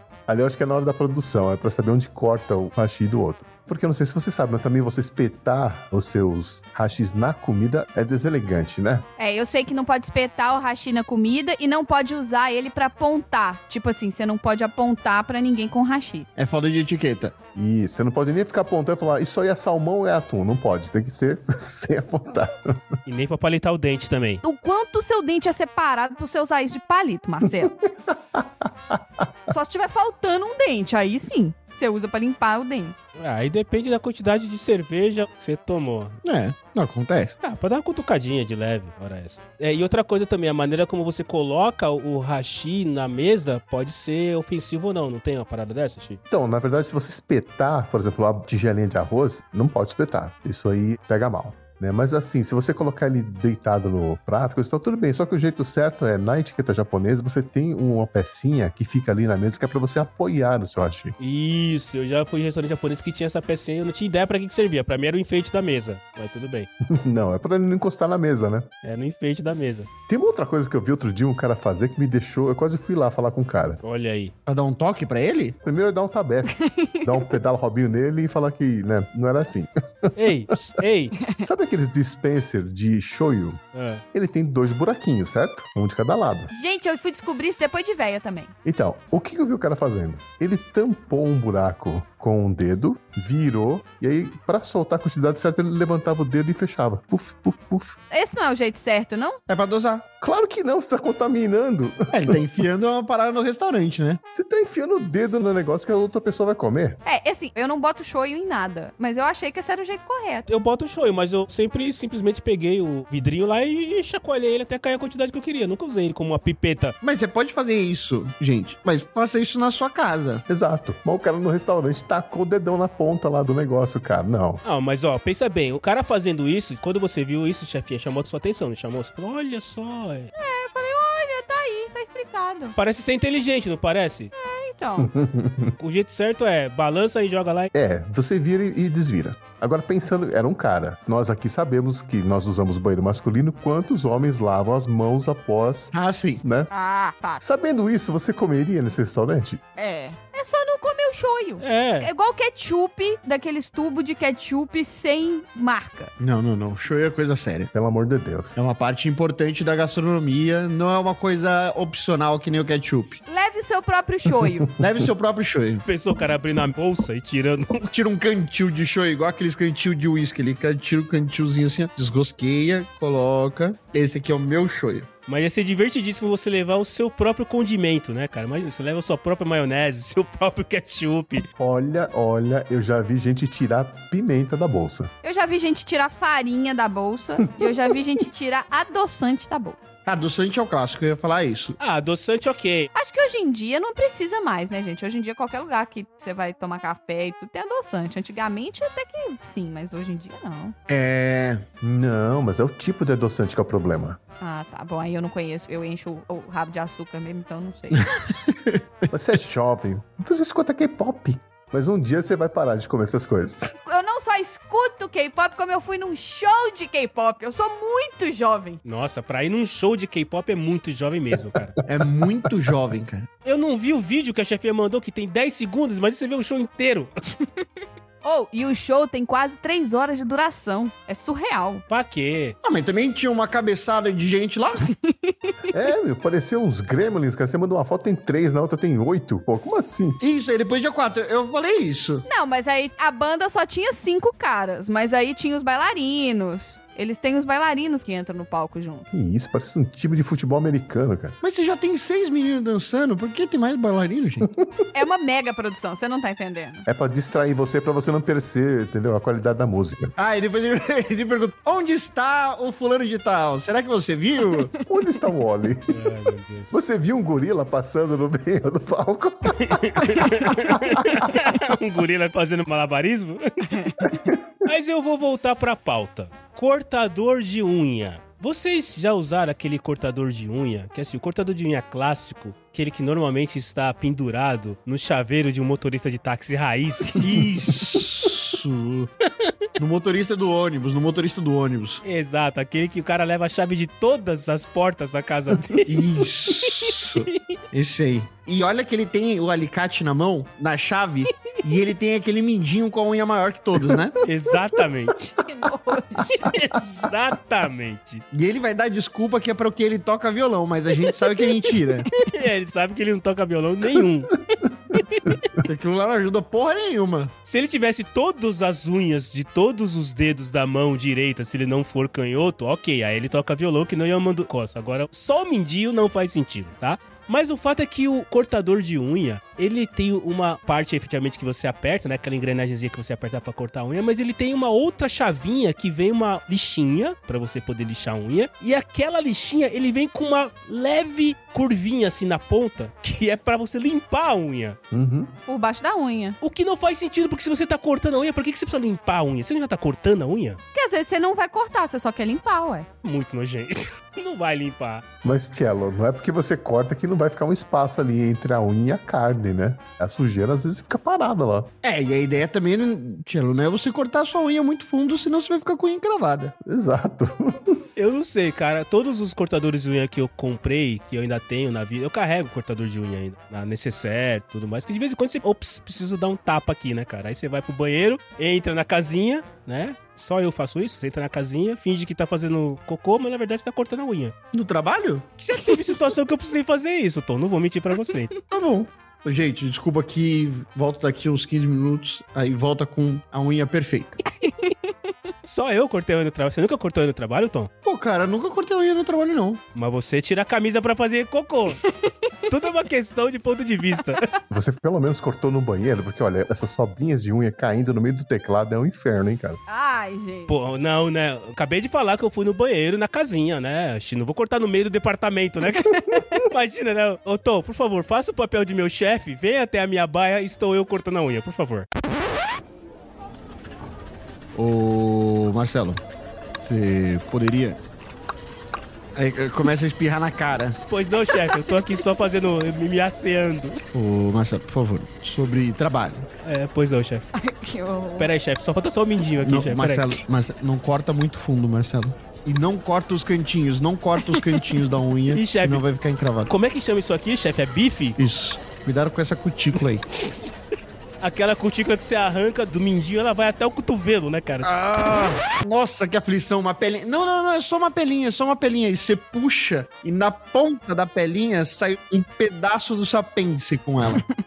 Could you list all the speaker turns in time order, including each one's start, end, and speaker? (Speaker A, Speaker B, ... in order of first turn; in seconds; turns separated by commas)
Speaker A: 0.3-9.1, Speaker B: 9.2-16.3, Speaker C: 16.4-17.3, Speaker A: 17.5-22.9, Speaker D: 23.1-24.4, Speaker B: 24.4-27.7, Speaker A: 27.4-29.3, Speaker B: 29.5-32.9, Speaker D: 33.2-36.2, Speaker C: 36.2-37.3, Speaker D: 37.4-46.2, Speaker A: 46.3-61.1, Speaker D: 61.2-66.7, Speaker A: 66.8-68.7, Speaker D: 68.8-69.9, Speaker A: 70.1-73.8, Speaker D: 73.8-74.3, Speaker C: 74.5-75.6, Speaker A: 75.6-80.2, Speaker B: 76.6-77.2, Speaker D: 80.2-81.2, Speaker A: 81.4-83.6, Speaker D: 83.7-84.0, Speaker A: 84.1-86.5, Speaker B: 86.5-88.5, Speaker A: 88.6-98.0, Speaker B: 98.1-99.4, Speaker C: 99.5-100.0, Speaker A: 100.2-102.4, Speaker C: 102.1-104.2, Speaker A: 104.3-107.0, Speaker B: 107.0-110.5, Speaker D: 110.5-117.0, Speaker C: 117.0-120.4, Speaker A: 120.5-124.6, Speaker D: 124.6-130.3, Speaker B: 130.3-132.8, Speaker D: 132.8-134.3, Speaker B: 134.3-135.1, Speaker A: 135.0-135.7, Speaker D: 135.8-137.7, Speaker A: 137.7-146.7, Speaker C: 145.9-146.4, Speaker B: 146.7-147.4, Speaker A: 147.4-149.6, Speaker B: 149.8-156.1, Speaker D: 151.6-152.1, Speaker C: 156.2-157.7, Speaker A: 157.7-158.6, Speaker C: 158.6-163.2, Speaker B: 163.3-164.7, Speaker C: 164.8-165.8, Speaker D: 165.8-167.9, Speaker C: 167.9-175.1, Speaker D: 175.3-181.4, Speaker A: 181.6-185.1, Speaker B: 185.2-189.8, Speaker A: 187.6-187.9, Speaker C: 190.1-191.8, Speaker D: 191.8-192.9, Speaker B: 192.9-200.7, Speaker C: 200.9-201.6, Speaker A: 201.8-204.2, Speaker B: 204.4-208.1, Speaker C: 208.0-209.1, Speaker A: 209.1-213.8, Speaker B: 213.8-218.8, Speaker D: 218.8-221.8, Speaker C: 221.8-223.3, Speaker D: 223.4-227.1, Speaker B: 228.2-231.8, Speaker D: 231.9-232.6, Speaker C: 232.6-234.9, Speaker B: 235.1-235.5, Speaker A: 235.7-240.2, Speaker C: 240.2-242.2, Speaker B: 242.2-249.1, Speaker A: 249.1-251.4, Speaker C: 251.4-254.5, Speaker A: 254.6-254.8, Speaker B: 254.9-256.9, Speaker A: 256.9-260.1, Speaker C: 260.2-264.7, Speaker A: 264.9-266.0, Speaker D: 265.9-266.8, Speaker A: 266.7-270.2, Speaker D: 269.6-274.1, Speaker A: 270.8-271.3, Speaker B: 273.7-273.9, Speaker A: 274.1-274.5, Speaker D: 274.6-287.3, Speaker C: 287.2-289.1, Speaker C: 289.8-292.0, Speaker D: 292.0-297.6, Speaker C: 295.9-304.2, Speaker D: 304.2-305.4, Speaker B: 305.4-306.6, Speaker D: 306.4-308.2, Speaker C: 308.3-312.1, Speaker D: 312.1-314.4, Speaker D: 314.9-315.4, Speaker C: 315.6-317.3, Speaker D: 317.4-344.8, Speaker A: 344.9-345.3, Speaker B: 345.5-346.4, Speaker D: 346.4-350.6, Speaker B: 350.7-352.9, Speaker D: 353.0-355.0, Speaker A: 355.2-361.7, Speaker C: 361.8-366.5, Speaker A: 366.6-367.8, Speaker D: 367.9-384.3, Speaker C: 384.5-385.3, Speaker D: 385.4-388.3, Speaker C: 388.5-394.2, Speaker B: 394.4-395.1, Speaker D: 395.4-397.7, Speaker C: 397.8-399.6, Speaker D: 399.7-401.8, Speaker B: 401.9-402.3, Speaker D: 402.5-404.3, Speaker A: 404.5-409.6, Speaker B: 409.7-410.5, Speaker D: 410.5-421.9, Speaker C: 424.5-426.0, Speaker C: 426.6-427.8, Speaker C: 429.1-430.8, Speaker D: 430.9-433.8, Speaker C: 433.9-436.3, Speaker D: 436.4-437.2, Speaker B: 437.3-438.3, Speaker D: 438.2-440.2, Speaker C: 439.4-446.5, Speaker D: 445.3-445.8, Speaker D: 446.5-448.2, Speaker C: 448.2-450.0, Speaker D: 451.2-454.7, Speaker C: 454.6-464.2